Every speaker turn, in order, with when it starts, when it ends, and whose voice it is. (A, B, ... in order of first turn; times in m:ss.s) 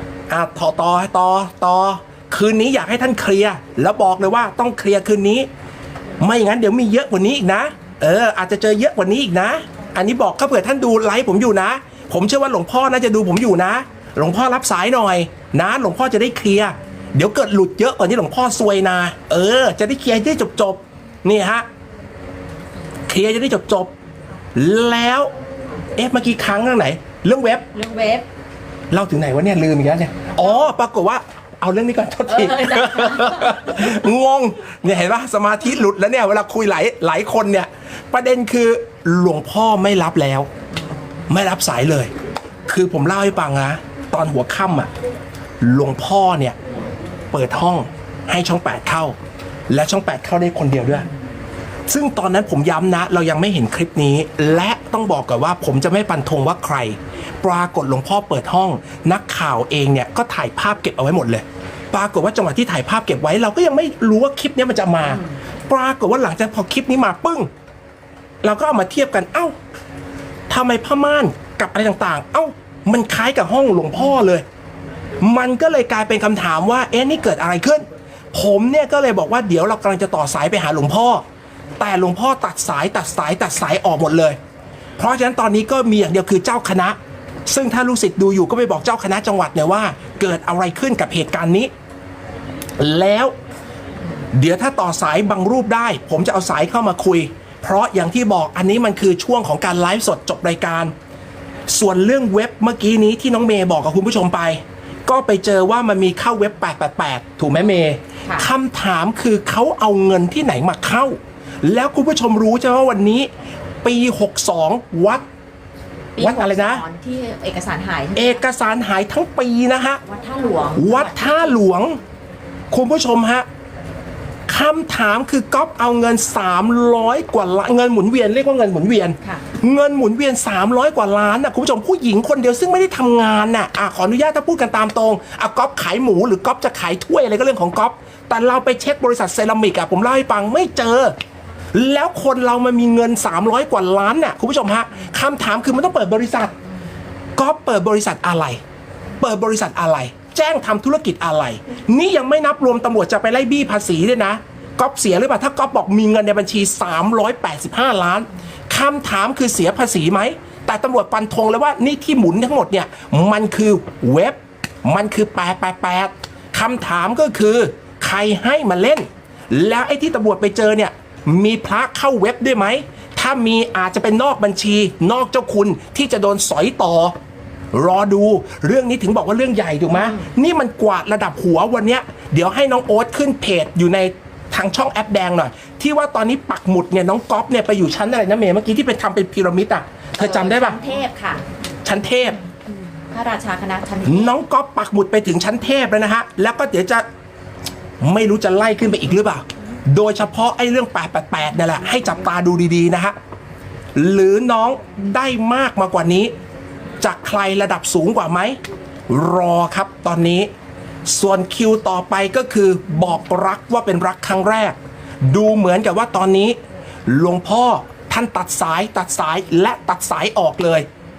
0:00.3-0:05.5 A
0:06.2-0:21.7 A
0:23.1-0:23.9 A
0:24.5-0:25.3 A
0:26.0-0:27.7 A
0:27.7-0:28.2 B
0:28.9-0:40.5 A
0:32.3-0:33.8 B
0:41.3-0:42.1 A
0:42.7-0:44.9 A
0:45.6-0:46.6 A
0:47.3-0:49.2 A
0:49.7-0:51.1 A
0:51.9-1:07.5 A
1:08.4-1:09.5 A
1:10.5-1:14.4 A
1:15.2-1:21.2 A
1:21.8-1:24.4 A
1:25.0-1:31.7 A
1:32.8-1:33.3 A
1:34.3-1:40.9 A
1:41.7-1:53.3 A
1:53.8-1:55.2 A
1:56.2-1:58.4 B
1:56.2-1:56.8 A
1:58.1-2:00.0 A
2:00.0-2:01.5 B
2:00.8-2:02.0 A
2:02.7-2:03.4 A
2:04.5-2:21.1 A
2:21.7-2:26.5 A
2:27.4-2:28.6 A
2:29.2-2:57.2 A
2:57.7-3:10.8 A
2:59.9-3:00.2 B
3:10.2-3:11.4 B
3:11.8-3:12.4 A
3:13.1-3:14.3 B
3:14.0-3:17.0 A
3:18.0-3:23.2 A
3:23.9-3:26.3 A
3:27.0-3:28.6 A
3:29.1-3:30.5 A
3:31.1-3:40.9 A